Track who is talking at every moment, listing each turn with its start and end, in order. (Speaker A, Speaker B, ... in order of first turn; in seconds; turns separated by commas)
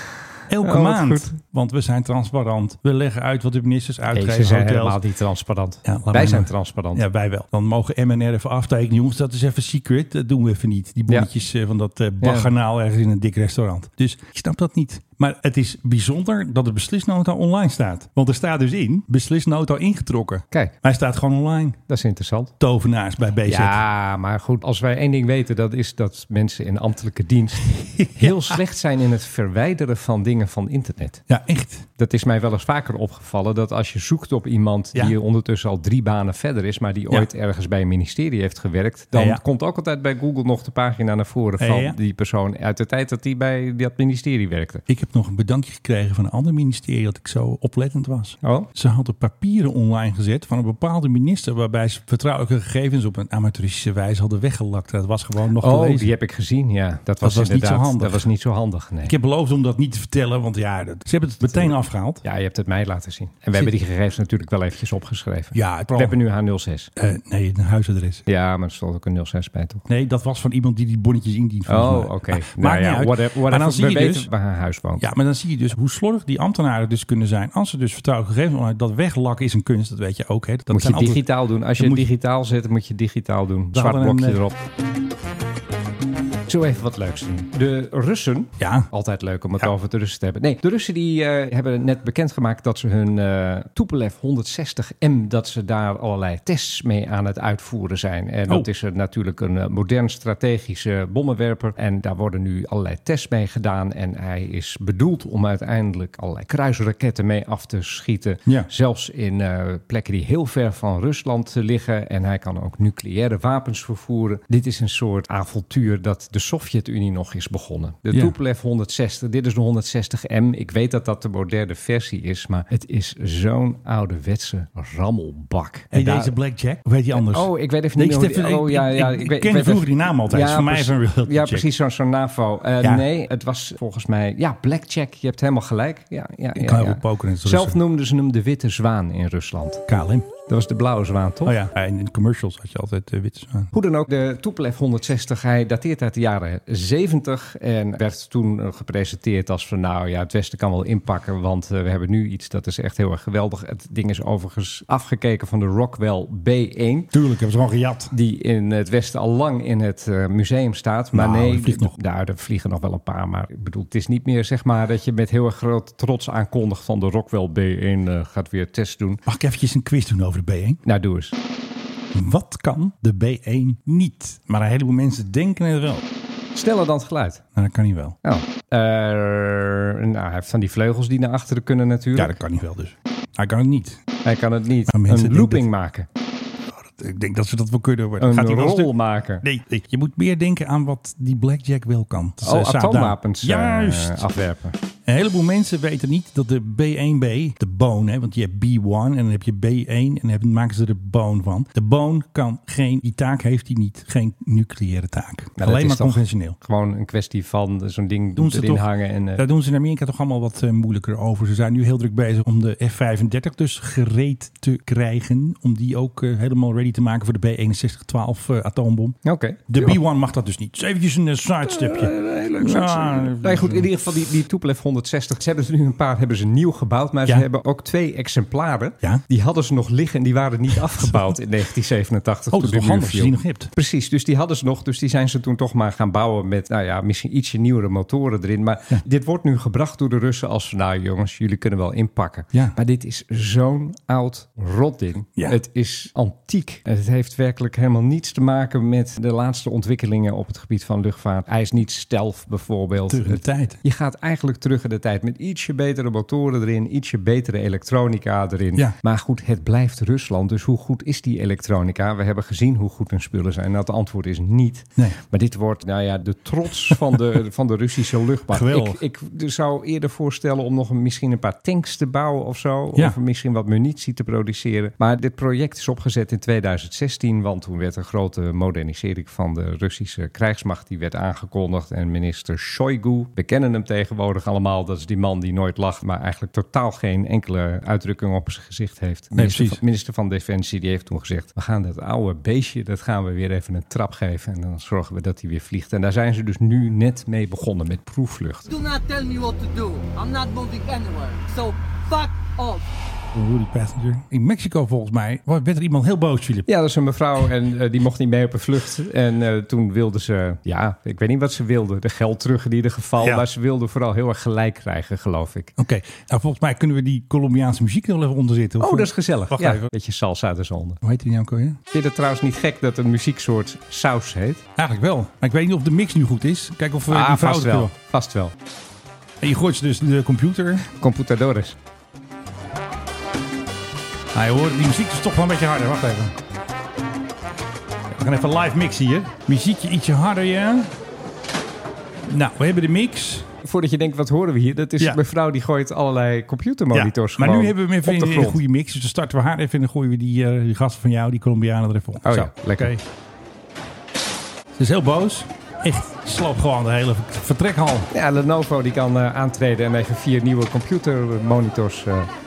Speaker A: 0.5-5.0, Speaker B: 0.6-1.4, Speaker B: 4.1-7.0, Speaker A: 5.8-21.8, Speaker B: 12.2-12.5, Speaker B: 21.9-22.5, Speaker A: 22.6-23.8, Speaker B: 23.5-31.2, Speaker A: 28.2-28.6, Speaker A: 31.3-31.9, Speaker B: 32.0-44.8, Speaker A: 39.1-39.4, Speaker A: 41.6-42.0, Speaker A: 44.9-56.1, Speaker B: 48.4-48.7, Speaker B: 55.6-59.1, Speaker A: 57.2-58.3, Speaker A: 59.0-62.2, Speaker B: 61.4-66.9, Speaker A: 65.5-66.2, Speaker A: 67.0-68.2, Speaker B: 68.3-69.8, Speaker A: 69.9-74.3, Speaker B: 71.7-75.1, Speaker A: 75.0-82.1, Speaker B: 80.7-84.6, Speaker A: 83.7-84.4, Speaker B: 86.5-126.3, Speaker A: 88.6-88.9, Speaker A: 118.1-118.4, Speaker A: 125.9-131.7, Speaker B: 127.1-139.8, Speaker A: 132.8-133.1, Speaker A: 136.6-137.8, Speaker A: 139.9-140.3, Speaker B: 140.5-141.6, Speaker A: 141.4-143.7, Speaker B: 143.7-157.1, Speaker A: 157.1-158.1, Speaker B: 158.1-169.2, Speaker A: 161.1-161.9, Speaker A: 169.3-170.8, Speaker B: 170.8-171.3, Speaker A: 172.1-176.0, Speaker B: 176.6-177.4, Speaker A: 177.6-178.2, Speaker B: 178.2-182.4, Speaker A: 182.2-184.0, Speaker B: 184.2-186.1, Speaker A: 184.9-185.7, Speaker A: 186.7-194.3, Speaker B: 188.2-189.4, Speaker B: 192.4-194.8, Speaker A: 195.1-206.6, Speaker B: 205.6-209.4, Speaker A: 208.4-223.9, Speaker B: 219.2-220.0, Speaker B: 221.7-298.7, Speaker A: 230.9-231.3, Speaker A: 232.5-233.7, Speaker A: 253.1-253.8, Speaker A: 268.5-269.0, Speaker A: 289.4-289.8, Speaker C: 298.7-302.8, Speaker A: 303.3-306.7, Speaker B: 306.7-315.7, Speaker A: 315.8-319.9, Speaker B: 318.8-321.0, Speaker A: 321.0-321.8, Speaker B: 321.9-324.6, Speaker A: 324.8-327.9, Speaker B: 327.1-328.5, Speaker A: 329.4-330.9, Speaker B: 330.9-331.8, Speaker A: 334.3-336.4, Speaker A: 338.1-340.9, Speaker A: 342.3-343.5, Speaker B: 343.6-348.6, Speaker A: 346.9-353.0, Speaker B: 352.2-352.9, Speaker A: 354.8-358.1, Speaker B: 358.1-362.3